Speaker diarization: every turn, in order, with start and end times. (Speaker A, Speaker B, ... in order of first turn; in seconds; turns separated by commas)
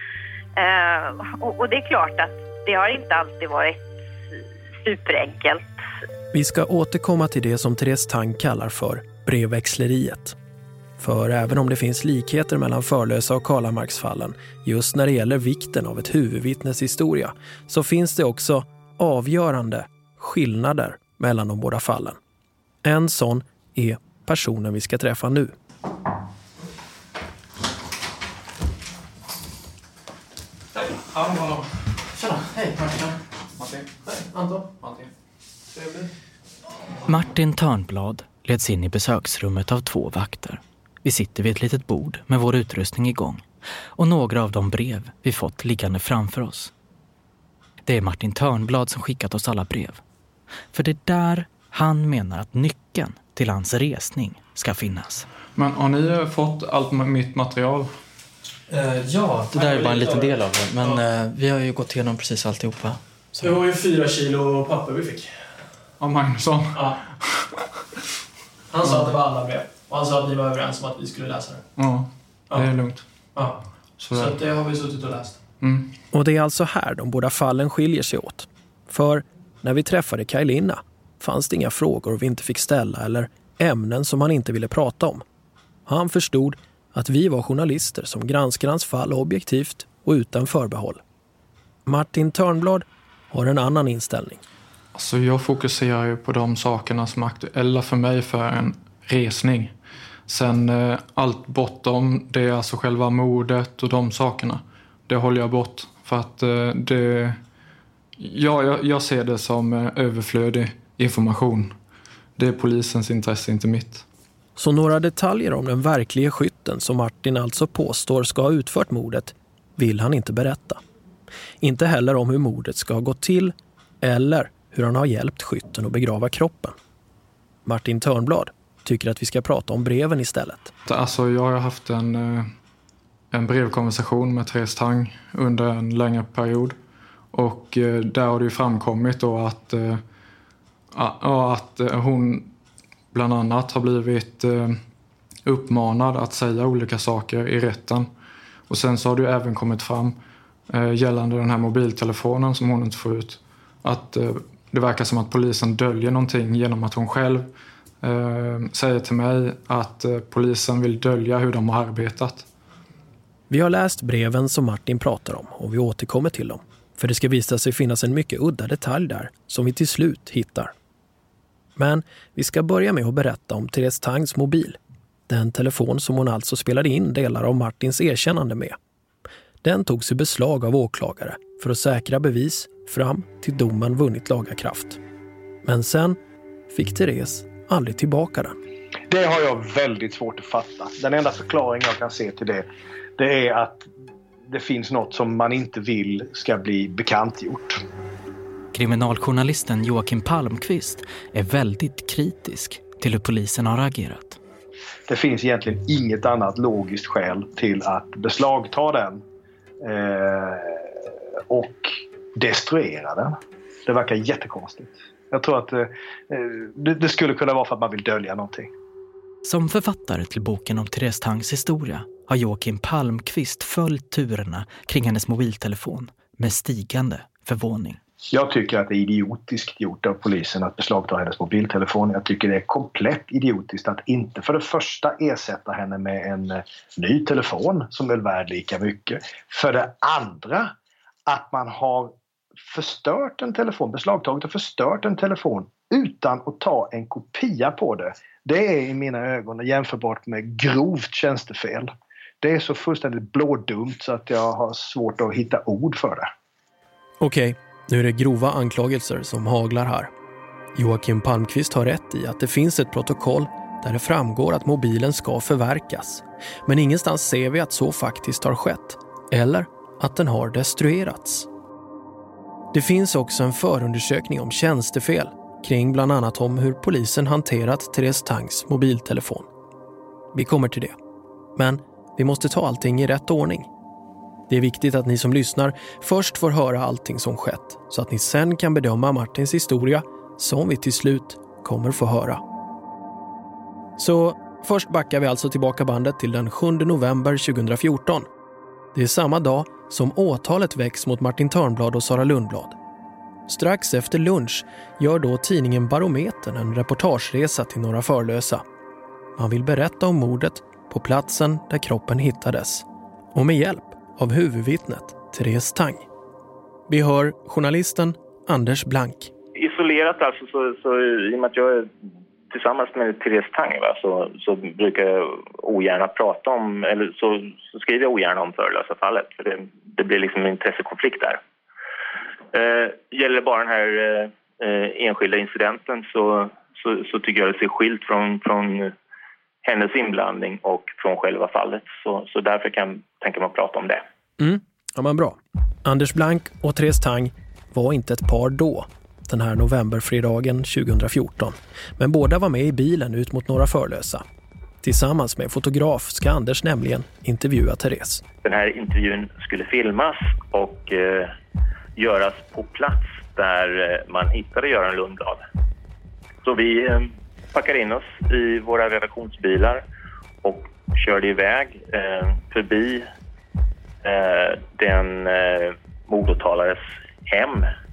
Speaker A: 0.6-3.9, Speaker A: 4.8-5.6, Speaker B: 6.3-10.3, Speaker B: 11.0-22.2, Speaker B: 22.8-25.5, Speaker C: 32.3-32.9, Speaker B: 35.8-36.0, Speaker C: 37.1-46.7, Speaker C: 47.9-50.0, Speaker C: 50.7-55.3, Speaker D: 55.6-57.9, Speaker C: 58.7-63.5, Speaker B: 59.5-61.0, Speaker B: 63.4-65.4, Speaker D: 66.0-67.5, Speaker B: 66.7-67.0, Speaker B: 68.7-71.6, Speaker D: 68.8-69.1, Speaker D: 71.8-73.0, Speaker D: 74.0-74.4, Speaker B: 74.1-75.4, Speaker D: 75.6-75.9, Speaker B: 76.1-85.2, Speaker B: 85.9-91.0, Speaker B: 91.9-94.4, Speaker D: 95.0-99.8, Speaker D: 100.3-107.4, Speaker D: 108.2-111.8, Speaker D: 112.4-114.0, Speaker B: 114.6-120.8, Speaker B: 121.6-126.8, Speaker B: 127.7-130.7, Speaker D: 130.9-132.5, Speaker D: 133.3-136.8, Speaker D: 137.3-140.0, Speaker D: 140.9-142.5, Speaker D: 143.1-144.8, Speaker D: 145.4-148.1, Speaker D: 148.7-150.2, Speaker D: 150.7-157.5, Speaker D: 158.0-162.5, Speaker B: 163.5-170.7, Speaker B: 171.8-178.8, Speaker B: 179.6-185.0, Speaker B: 185.6-186.2, Speaker B: 186.7-188.6, Speaker E: 189.1-192.7, Speaker E: 193.2-193.9, Speaker E: 194.5-197.8, Speaker C: 198.7-204.4, Speaker E: 205.1-209.2, Speaker E: 209.8-213.3, Speaker E: 213.9-218.7, Speaker C: 219.4-228.0, Speaker E: 228.3-240.7, Speaker E: 241.3-242.1, Speaker E: 242.7-256.3, Speaker B: 257.2-260.1, Speaker B: 260.8-271.5, Speaker B: 272.7-279.5, Speaker B: 280.3-280.9, Speaker B: 281.6-283.7, Speaker B: 284.5-292.4, Speaker B: 294.0-298.3, Speaker B: 298.9-302.8, Speaker B: 303.5-308.6, Speaker B: 309.4-316.1, Speaker B: 316.9-319.3, Speaker F: 319.6-321.9, Speaker F: 322.5-331.4, Speaker F: 332.5-338.9, Speaker F: 339.6-344.0, Speaker B: 344.4-354.2, Speaker B: 354.8-358.2, Speaker F: 358.4-361.3, Speaker F: 362.0-365.4, Speaker F: 366.4-369.8, Speaker F: 370.4-373.1, Speaker F: 374.0-377.7